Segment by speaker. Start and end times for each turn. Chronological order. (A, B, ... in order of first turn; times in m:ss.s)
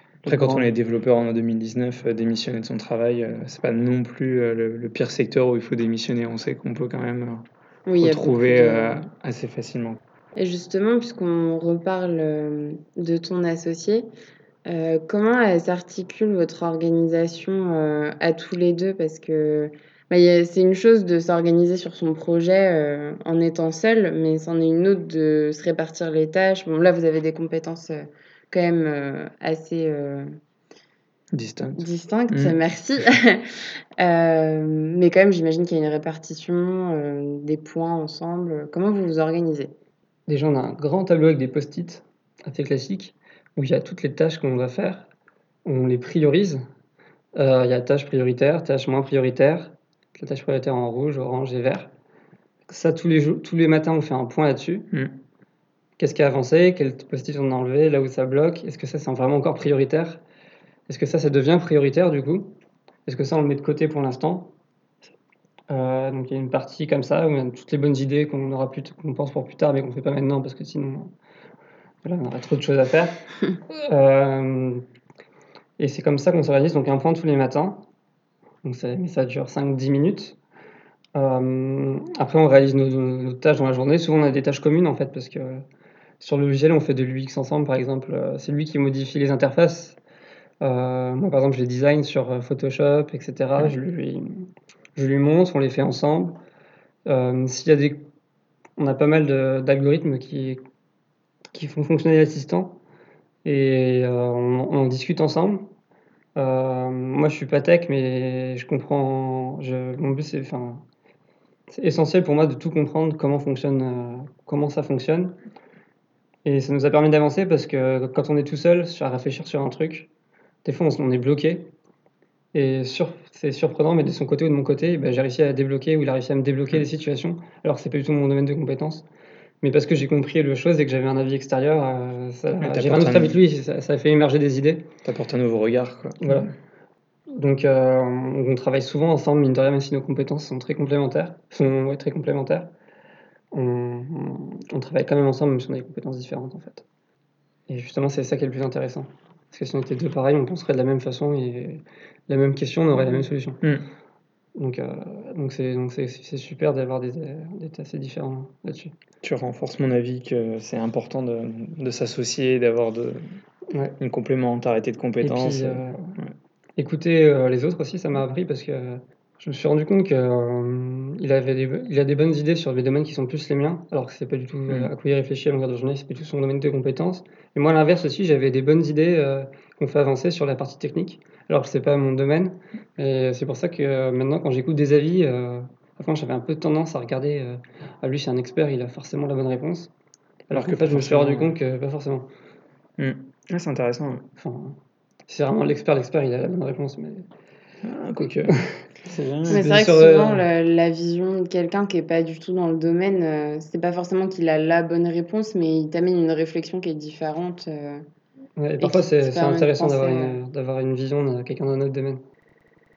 0:00.2-0:00.7 A
0:00.3-0:07.4 B
0:07.9-0:09.0 C
0:08.0-0:10.0 B
0:10.4-0:14.1 C
0:14.7-0:30.4 C
0:31.3-0:32.6 B
0:31.8-0:33.5 C
0:34.0-0:39.7 C
0:40.3-0:45.1 A
0:45.6-0:46.6 A
0:47.4-0:51.9 A
0:52.7-0:54.9 A
0:56.0-1:00.2 A
1:00.9-1:02.5 A
1:03.1-1:04.5 A
1:05.7-1:11.1 A
1:12.0-1:14.8 A
1:15.8-1:17.8 A
1:18.6-1:20.4 A
1:21.2-1:25.6 A
1:26.2-1:30.0 A
1:30.6-1:36.4 A
1:37.1-1:38.0 A
1:38.8-1:40.6 A
1:41.5-1:42.8 A
1:43.4-1:45.7 A
1:46.4-1:50.8 A
1:51.7-1:55.4 A
1:56.4-2:00.1 A
2:00.6-2:01.7 A
2:02.5-2:09.0 A
2:09.6-2:14.9 A
2:12.6-2:13.4 B
2:15.0-2:16.5 B
2:16.2-2:16.5 A
2:17.3-2:22.7 A
2:23.5-2:26.8 A
2:27.7-2:33.6 A
2:33.6-2:33.9 B
2:34.6-2:38.9 A
2:39.2-2:43.4 B
2:43.7-2:44.0 A
2:44.0-2:46.3 B
2:45.2-2:46.2 A
2:46.8-3:09.9 A
3:10.5-3:11.6 B
3:10.5-3:12.3 A
3:13.0-3:14.3 B
3:14.4-3:17.3 A
3:17.8-3:19.6 B
3:18.2-3:20.4 A
3:19.5-3:28.1 C
3:28.6-3:32.2 A
3:28.8-3:30.4 C